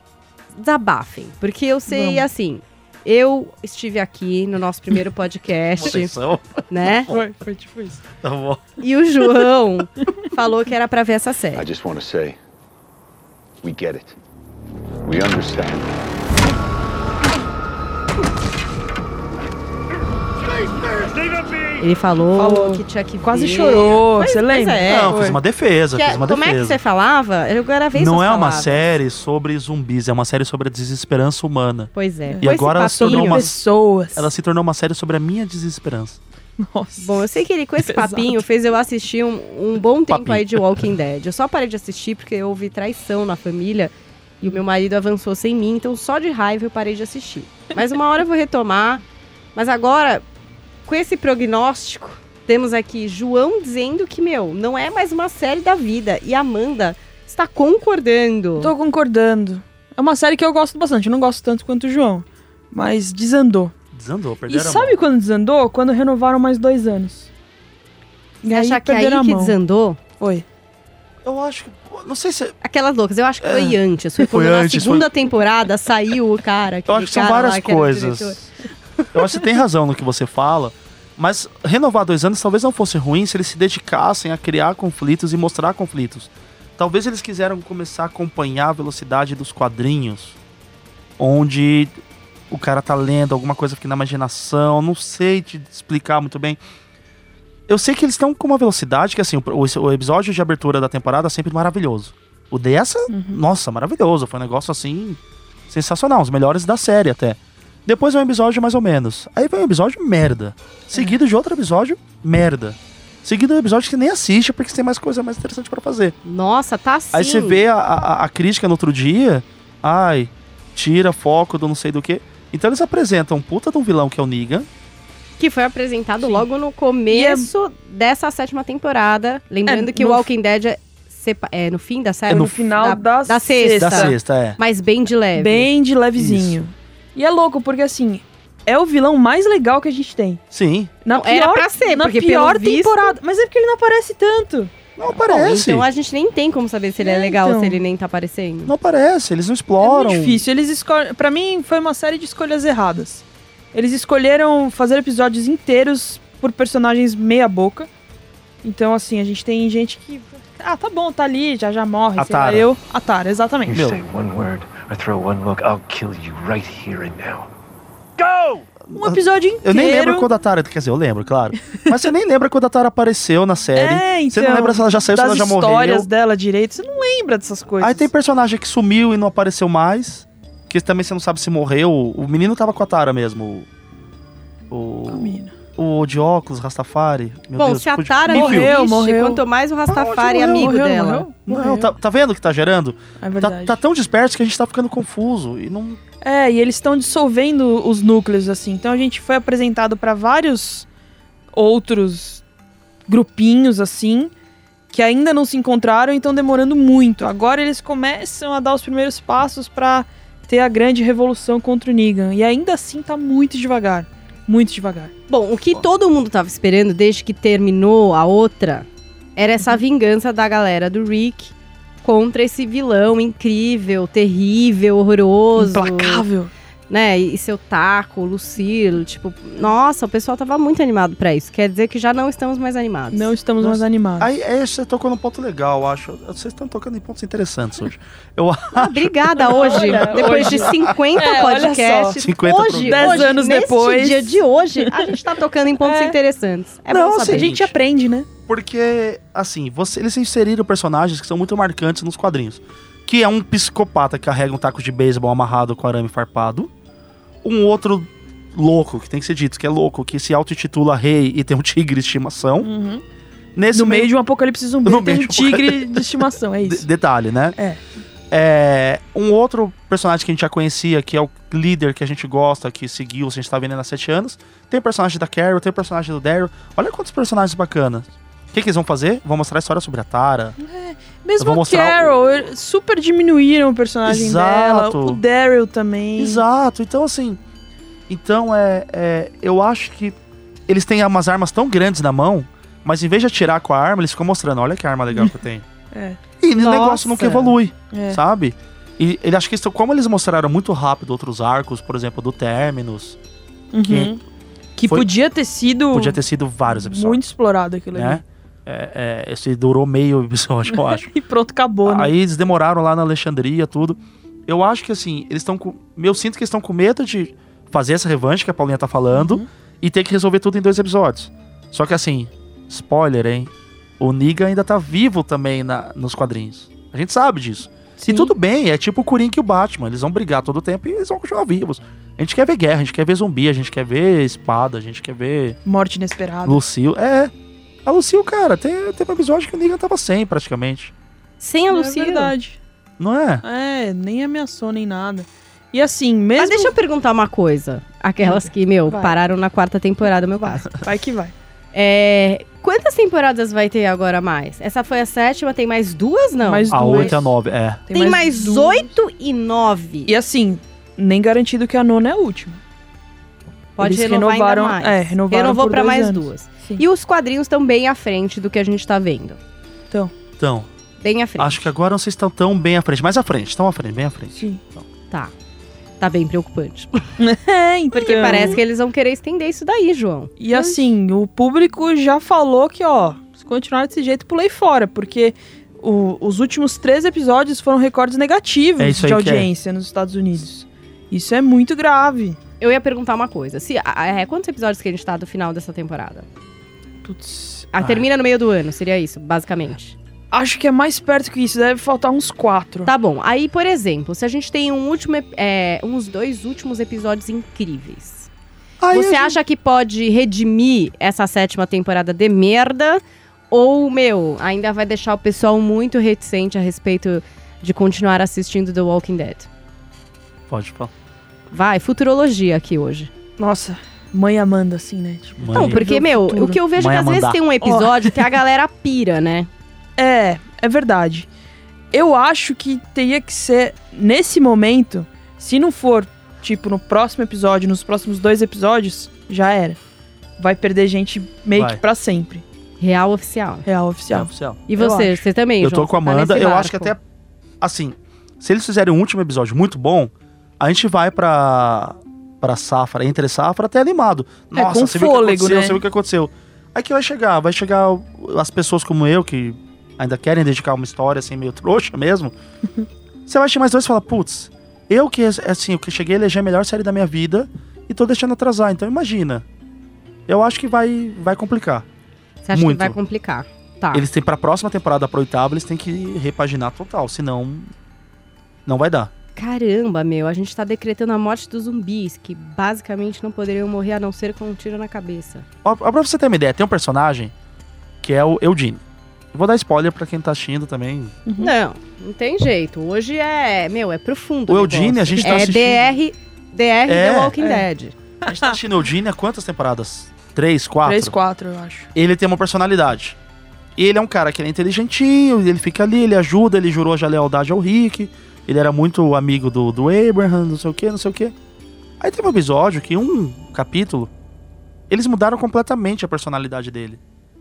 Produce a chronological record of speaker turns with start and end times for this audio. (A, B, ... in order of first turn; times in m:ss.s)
0:00.5-0:06.1 A
0:01.9-0:02.3 B
0:05.8-0:07.2 C
0:06.7-0:07.2 A
0:07.1-0:08.0 B
0:08.2-0:08.6 C
0:08.8-0:11.7 A
0:11.5-0:12.4 D
0:13.6-0:14.2 D
0:15.0-0:15.9 D
0:21.8-0:25.2 A
0:22.4-0:25.4 B
0:24.8-0:26.8 C
0:25.9-0:28.8 A
0:27.9-0:33.6 C
0:31.9-0:33.5 A
0:32.3-0:34.3 B
0:34.1-0:36.2 C
0:36.6-0:38.4 B
0:37.0-0:49.0 A
0:40.1-0:40.8 C
0:49.5-0:50.2 A
0:50.8-0:58.7 A
0:58.6-1:03.7 B
1:03.9-1:05.0 C
1:04.5-1:07.3 B
1:08.4-1:09.6 B
1:08.5-1:10.0 A
1:10.2-1:10.4 B
1:11.2-1:12.6 C
1:12.6-1:18.4 A
1:13.4-1:15.1 C
1:16.9-1:18.4 C
1:19.1-1:30.4 C
1:31.2-1:31.9 C
1:32.5-1:36.6 C
1:37.7-1:56.1 C
1:43.1-1:43.4 B
1:50.9-1:51.2 B
1:56.2-1:57.6 A
1:57.1-2:04.7 C
2:05.4-2:15.7 A
2:07.1-2:07.5 B
2:09.7-2:10.3 B
2:12.3-2:14.2 B
2:13.8-2:14.6 C
2:15.3-2:20.4 B
2:16.2-2:16.6 C
2:20.5-2:20.9 C
2:21.0-2:24.7 B
2:21.1-2:23.1 A
2:25.0-2:25.8 C
2:25.1-2:28.7 A
2:27.0-2:27.8 B
2:28.6-2:30.4 C
2:29.8-2:37.9 B
2:38.6-2:43.8 B
2:42.2-2:42.7 C
2:43.7-2:47.5 E
2:43.7-2:44.0 C
2:48.2-2:48.6 E
2:48.8-2:56.1 C
2:48.9-2:50.3 B
2:51.7-2:52.0 B
2:53.7-2:58.1 B
2:57.8-3:03.7 C
3:04.7-3:08.7 C
3:05.1-3:05.5 B
3:07.6-3:11.3 A
3:08.3-3:09.4 B
3:09.9-3:10.7 C
3:10.4-3:11.9 B
3:11.5-3:16.0 C
3:13.2-3:13.8 B
3:16.2-3:20.9 B
3:21.5-3:22.4 B
3:23.1-3:24.3 B
3:24.9-3:35.1 B
3:35.3-3:46.2 A
3:45.6-3:46.5 B
3:46.9-3:53.3 A
3:53.1-3:54.3 B
3:53.6-4:01.0 C
3:58.8-4:07.6 A
3:59.4-4:05.1 B
4:02.2-4:03.4 C
4:05.8-4:06.2 B
4:06.9-4:07.7 C
4:07.0-4:08.3 B
4:08.5-4:16.7 C
4:17.4-4:22.7 C
4:22.6-4:23.0 B
4:23.6-4:24.1 C
4:23.7-4:26.9 B
4:24.8-4:27.6 C
4:27.6-4:27.8 B
4:28.3-4:40.6 C
4:40.6-4:46.4 B
4:41.4-4:42.2 C
4:44.0-4:45.2 C
4:46.2-4:47.4 C
4:48.1-4:55.6 C
4:55.9-4:58.2 B
4:56.4-5:03.2 C
5:03.7-5:04.2 B
5:03.8-5:04.2 C
5:04.8-5:08.2 B
5:05.9-5:07.2 C
5:07.9-5:11.1 C
5:10.7-5:12.1 B
5:11.8-5:35.6 C
5:19.1-5:19.5 B
5:28.0-5:28.3 B
5:35.6-5:36.6 B
5:36.4-5:37.3 C
5:37.8-5:40.9 C
5:41.4-5:42.3 A
5:41.7-5:42.6 B
5:43.0-5:43.4 C
5:43.4-5:46.8 B
5:46.4-5:50.7 A
5:48.2-5:49.2 B
5:50.4-5:51.3 B
5:51.7-5:57.2 A
5:56.4-5:57.3 B
5:56.7-5:57.8 C
5:57.9-5:58.9 B
5:57.9-6:00.1 A
6:00.1-6:02.6 B
6:03.8-6:09.4 A
6:03.8-6:06.8 B
6:10.4-6:10.7 C
6:11.0-6:11.7 A
6:11.4-6:14.8 C
6:14.3-6:14.6 B
6:16.0-6:17.0 A
6:17.2-6:18.6 B
6:17.9-6:20.9 A
6:20.4-6:32.4 B
6:28.8-6:29.5 C
6:32.6-6:36.2 A
6:37.0-6:37.7 B
6:37.7-6:40.0 A
6:40.3-6:42.9 B
6:42.8-6:48.3 A
6:48.8-6:49.4 C
6:48.9-6:59.5 A
7:00.5-7:00.9 C
7:01.5-7:03.1 A
7:03.4-7:06.6 B
7:05.4-7:05.9 C
7:05.5-7:09.5 A
7:06.7-7:07.4 C
7:07.6-7:08.2 B
7:10.0-7:11.3 B
7:11.9-7:19.8 B
7:20.4-7:22.4 B
7:21.5-7:21.8 C
7:22.8-7:23.6 A
7:23.6-7:25.2 B
7:24.1-7:24.6 C
7:24.7-7:26.9 A
7:25.6-7:27.0 C
7:27.6-7:42.3 C
7:34.5-7:35.8 B
7:43.3-7:49.4 C
7:50.3-7:51.8 C
7:52.4-7:54.0 A
7:52.5-7:53.0 C
7:53.9-7:57.7 C
7:58.6-7:59.1 C
7:59.4-8:05.4 A
8:05.6-8:07.3 C
8:08.0-8:08.8 C
8:09.3-8:11.1 C
8:11.2-8:11.5 B
8:11.4-8:18.0 A
8:14.5-8:15.8 C
8:16.9-8:17.3 C
8:17.4-8:17.6 B
8:18.2-8:21.1 C
8:18.2-8:18.6 B
8:20.8-8:21.9 B
8:21.9-8:23.2 C
8:23.8-8:31.3 C
8:32.0-8:34.1 C
8:34.9-8:37.0 C